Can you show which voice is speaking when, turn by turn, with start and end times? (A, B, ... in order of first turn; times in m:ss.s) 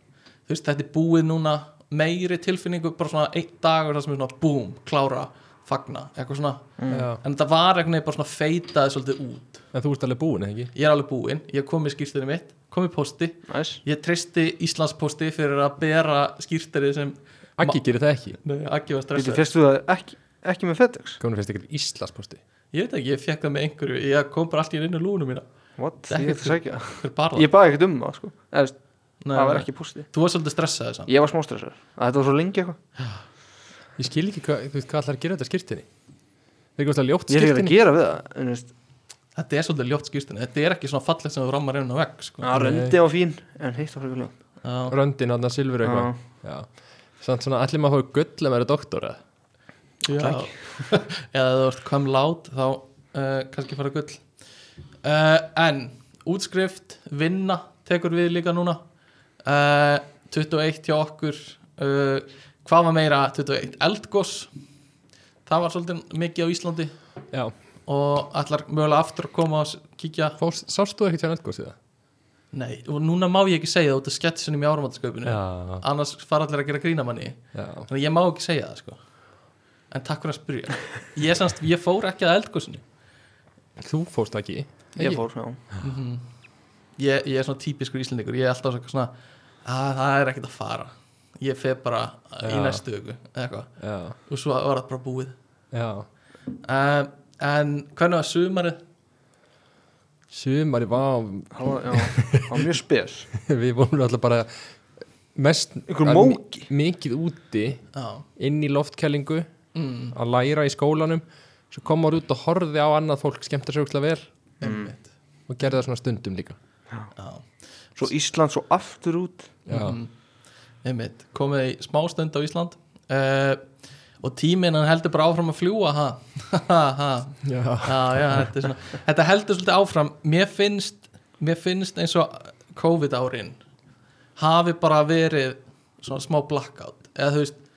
0:00.5-0:09.6 A
0:06.8-0:07.1 B
0:06.9-0:07.2 C
0:09.7-0:10.7 C
0:10.7-0:17.8 A
0:13.5-0:13.8 B
0:17.6-0:18.4 C
0:18.4-0:19.4 A
0:19.2-0:21.2 B
0:21.2-0:22.4 C
0:22.7-0:25.5 A
0:25.8-0:28.8 B
0:26.1-0:27.5 A
0:29.2-0:31.1 A
0:29.3-0:30.1 B
0:31.1-0:32.8 B
0:34.0-0:35.9 C
0:36.8-0:37.8 C
0:37.3-0:38.7 B
0:39.4-0:42.5 A
0:42.4-0:44.3 B
0:42.5-0:43.0 C
0:44.6-0:45.0 A
0:44.9-0:49.2 C
0:45.8-0:46.2 B
0:50.0-0:54.2 A
0:50.2-0:50.5 B
0:55.0-0:58.8 A
0:59.4-1:04.5 A
1:05.5-1:07.0 A
1:07.9-1:10.4 A
1:10.4-1:11.8 C
1:12.5-1:19.0 A
1:15.3-1:15.8 C
1:17.6-1:17.9 C
1:19.9-1:22.8 A
1:23.8-1:25.2 C
1:25.0-1:25.6 B
1:25.8-1:26.2 A
1:27.0-1:29.1 A
1:29.6-1:33.7 A
1:32.4-1:32.8 C
1:33.8-1:34.2 C
1:34.3-1:35.3 A
1:35.7-1:36.1 C
1:36.6-1:38.8 A
1:40.3-1:42.7 C
1:41.5-1:43.3 B
1:43.3-1:44.5 C
1:45.4-1:47.8 C
1:45.9-1:46.7 B
1:47.9-1:48.3 A
1:48.4-1:49.5 C
1:49.8-1:50.2 A
1:50.1-1:54.3 C
1:54.6-1:55.1 A
1:54.6-1:54.9 B
1:55.5-1:56.6 C
1:57.2-1:57.4 A
1:58.0-1:59.6 B
1:59.7-2:00.0 C
1:59.7-2:00.1 A
2:00.8-2:03.6 A
2:04.2-2:13.6 A
2:07.4-2:08.5 C
2:14.4-2:17.6 A